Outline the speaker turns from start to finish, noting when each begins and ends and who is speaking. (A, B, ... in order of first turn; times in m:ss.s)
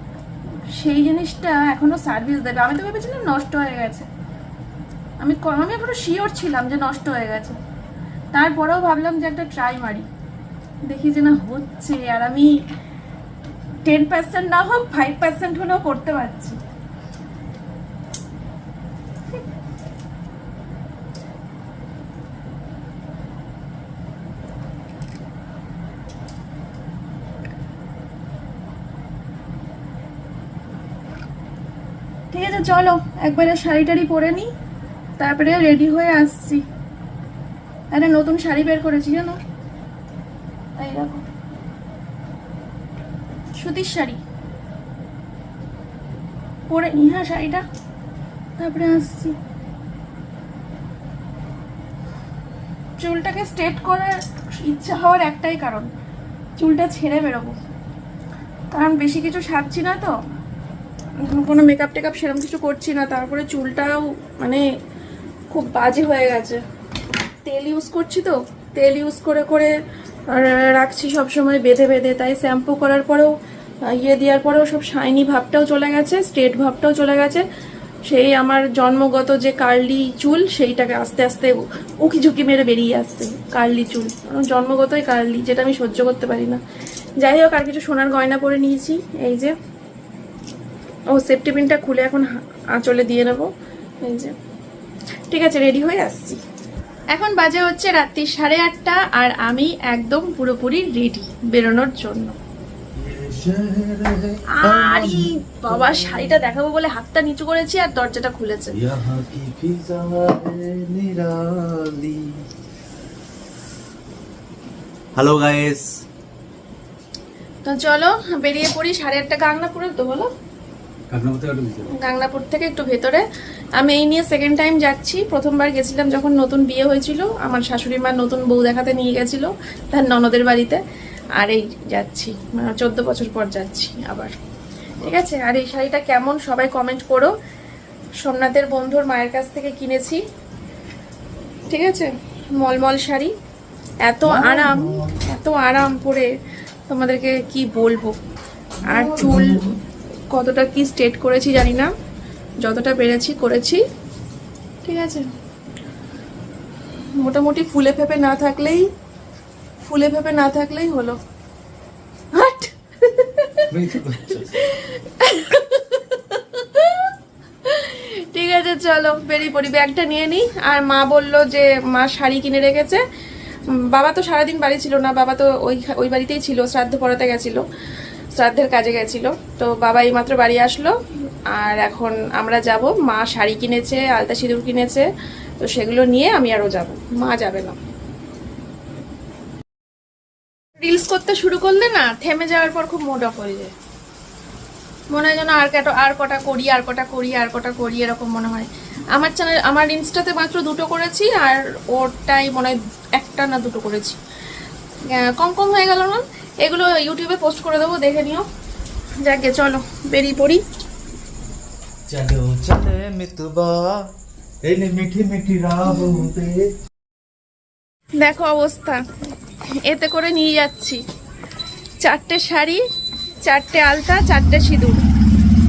0:00.7-0:04.1 A
0:05.2-0:07.6 A
0:08.3-0:10.1 A
0:10.9-0:12.6 A
0:13.8-0:16.6 A
0:32.3-0:34.5 A
0:35.2-0:36.6 A
0:37.9-0:39.4 A
0:40.8-0:41.2 A
0:43.5-0:44.2 A
0:46.7-0:47.6 A
0:48.6-0:49.4 A
0:53.0-0:55.9 A
0:56.6-0:57.6 A
0:58.7-1:00.1 A
1:01.2-1:04.6 A
1:05.5-1:06.6 A
1:07.4-1:09.7 A
1:10.3-1:13.3 A
1:13.9-1:17.4 A
1:18.0-1:26.6 A
1:27.2-1:29.5 A
1:31.1-1:33.5 A
1:34.0-1:34.3 A
1:35.3-1:36.4 A
1:37.1-1:42.4 A
1:43.0-1:46.5 B
1:44.6-1:48.8 A
1:48.7-1:52.4 B
1:55.1-1:55.9 B
1:57.6-2:00.3 A
2:01.1-2:01.9 B
2:02.0-2:03.2 A
2:03.8-2:10.8 A
2:11.4-2:14.3 A
2:15.0-2:17.3 A
2:18.2-2:20.2 A
2:21.7-2:23.3 A
2:24.0-2:26.3 A
2:24.2-2:25.2 B
2:26.9-2:28.2 A
2:28.9-2:29.7 A
2:28.9-2:29.7 B
2:30.3-2:31.9 A
2:32.6-2:33.8 A
2:34.8-2:35.3 A
2:37.2-2:38.9 A
2:39.8-2:41.2 A
2:42.3-2:43.7 A
2:43.7-2:44.6 B
2:44.5-2:47.1 A
2:47.6-2:53.0 A
2:53.7-2:57.6 A
2:58.3-3:00.9 A
3:01.5-3:05.1 A
3:05.6-3:07.8 A
3:10.8-3:13.7 A
3:15.1-3:24.2 A
3:25.1-3:28.4 A
3:29.2-3:30.6 A
3:32.1-3:34.1 B
3:34.6-3:36.7 B
3:38.2-3:39.0 A
3:39.8-3:41.0 A
3:42.0-3:42.8 A
3:43.4-3:45.0 A